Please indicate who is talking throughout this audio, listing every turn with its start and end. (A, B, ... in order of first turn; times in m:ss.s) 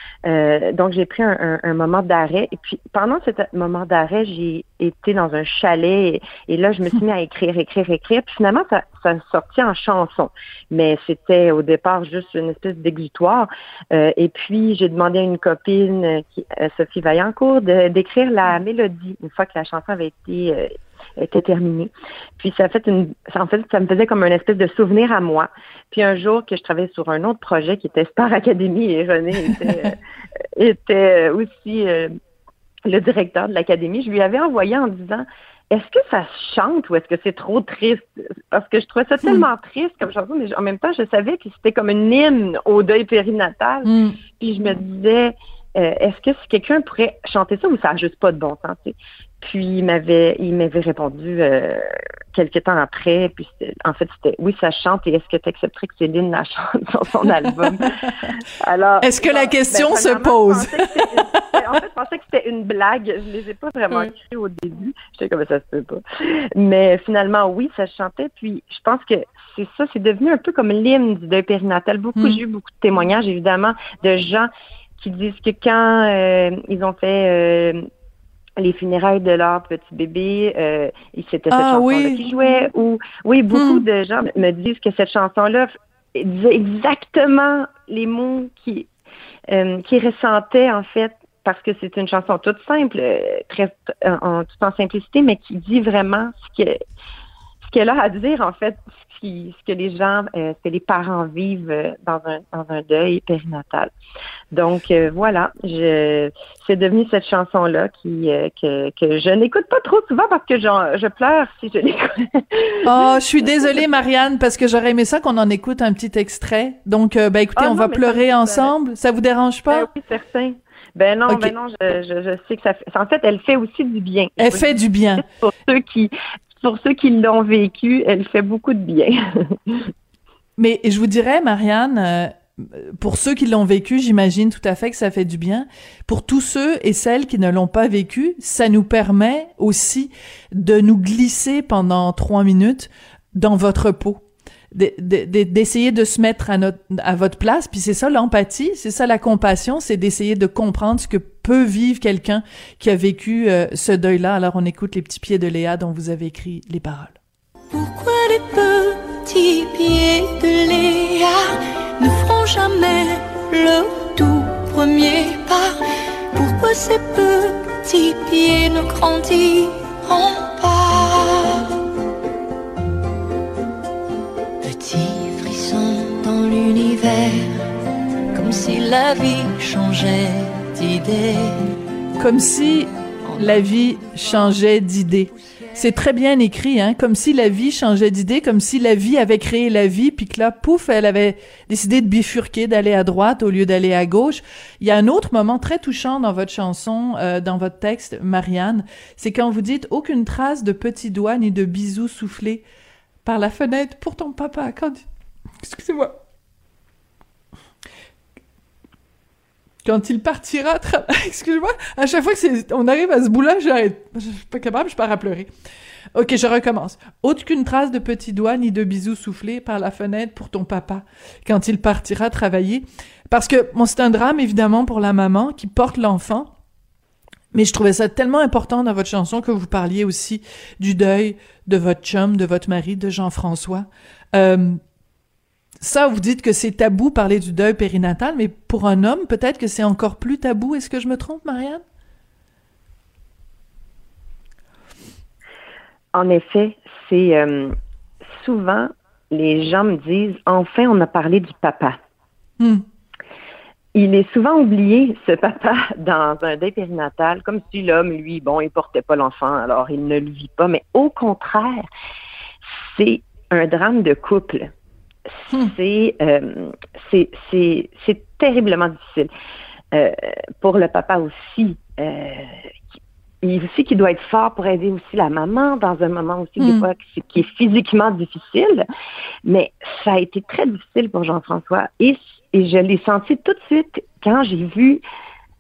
0:00.3-0:30.0 A
0:30.6-0:32.1 A
0:32.9-0:58.0 A
0:43.8-0:44.2 B
0:58.6-1:17.8 A
0:59.0-1:01.1 B
1:12.2-1:12.4 B
1:18.6-1:28.9 A
1:21.5-1:22.2 B
1:23.5-1:23.8 B
1:29.5-1:36.8 A
1:37.6-1:43.9 A
1:44.5-1:53.0 A
1:52.9-1:59.9 B
1:57.6-1:58.7 A
1:59.7-2:09.9 A
2:01.3-2:01.5 B
2:04.4-2:05.3 B
2:10.6-2:37.2 B
2:37.7-2:45.7 C
2:46.3-2:51.7 C
2:54.6-2:57.5 C
2:58.3-3:01.6 C
3:02.2-3:22.6 B
3:03.2-3:03.7 C
3:23.2-3:25.0 B
3:25.6-3:26.2 B
3:29.8-3:35.5 B
3:36.2-3:46.5 B
3:47.5-3:54.8 B
3:55.8-4:01.8 B
4:06.1-4:07.7 A
4:08.3-4:12.0 A
4:14.0-4:21.8 A
4:22.8-4:24.7 A
4:25.5-4:29.3 A
4:29.9-4:32.7 A
4:33.4-4:38.8 A
4:36.6-4:36.8 B
4:39.5-4:45.0 A